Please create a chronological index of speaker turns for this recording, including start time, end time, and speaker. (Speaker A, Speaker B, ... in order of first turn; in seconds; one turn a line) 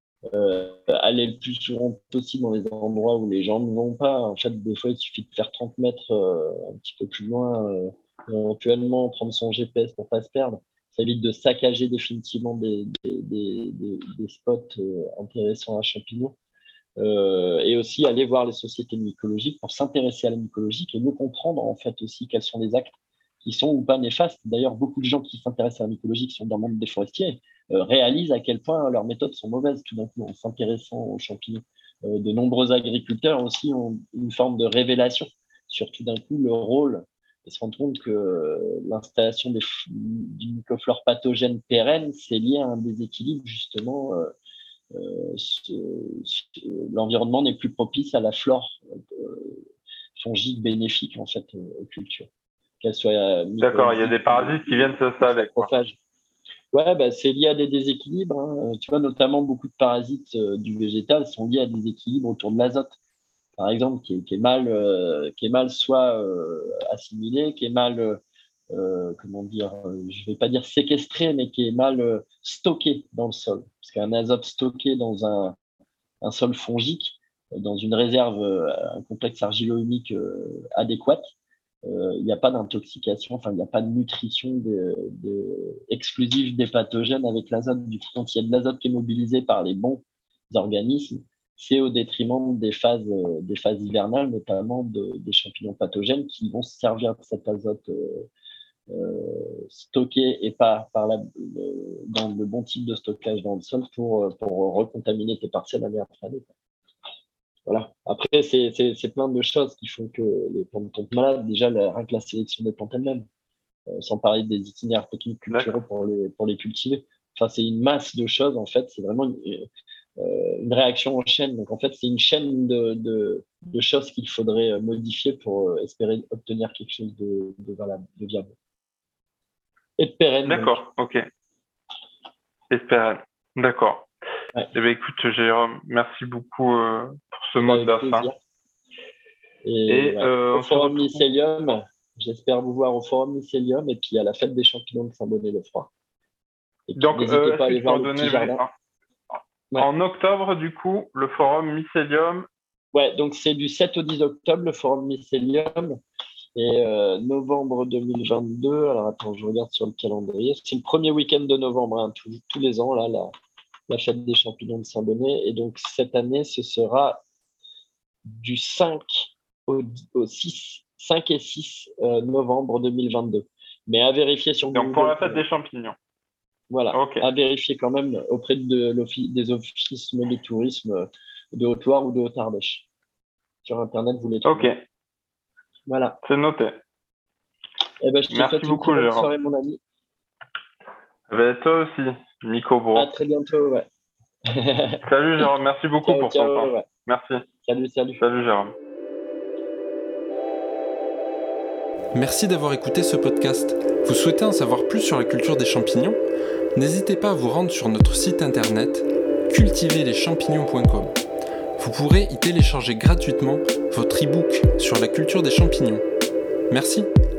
Speaker A: 0.3-16.4
Speaker A: 17.0-44.3
Speaker A: 44.9-49.6
Speaker A: 50.2-52.3
Speaker A: 52.8-56.0
Speaker B: 53.6-55.7
Speaker A: 56.7-63.0
Speaker A: 63.6-75.6
Speaker A: 76.2-81.3
Speaker A: 81.8-98.3
Speaker A: 98.9-106.5
Speaker A: 107.7-113.3
Speaker A: 113.9-128.6
Speaker B: 115.5-115.8
Speaker A: 130.0-130.8
Speaker B: 130.5-131.2
Speaker B: 132.7-134.1
Speaker B: 134.7-138.3
Speaker A: 137.6-138.4
Speaker A: 139.6-145.9
Speaker B: 139.9-141.2
Speaker A: 146.9-148.6
Speaker B: 147.0-148.7
Speaker B: 149.8-152.5
Speaker A: 152.9-156.0
Speaker A: 156.6-163.3
Speaker A: 163.9-167.2
Speaker A: 168.3-175.4
Speaker B: 174.7-176.0
Speaker A: 176.7-182.9
Speaker B: 176.9-177.3
Speaker A: 183.7-184.7
Speaker B: 184.5-184.8
Speaker A: 185.9-186.2
Speaker B: 186.2-186.8
Speaker A: 188.0-189.8
Speaker B: 188.3-189.3
Speaker B: 191.3-193.1
Speaker A: 192.9-193.9
Speaker A: 194.5-195.5
Speaker B: 195.1-197.4
Speaker A: 196.1-196.9
Speaker A: 197.6-198.2
Speaker B: 198.2-198.8
Speaker C: 202.1-206.2
Speaker C: 206.8-211.1
Speaker C: 211.8-216.0
Speaker C: 216.7-217.1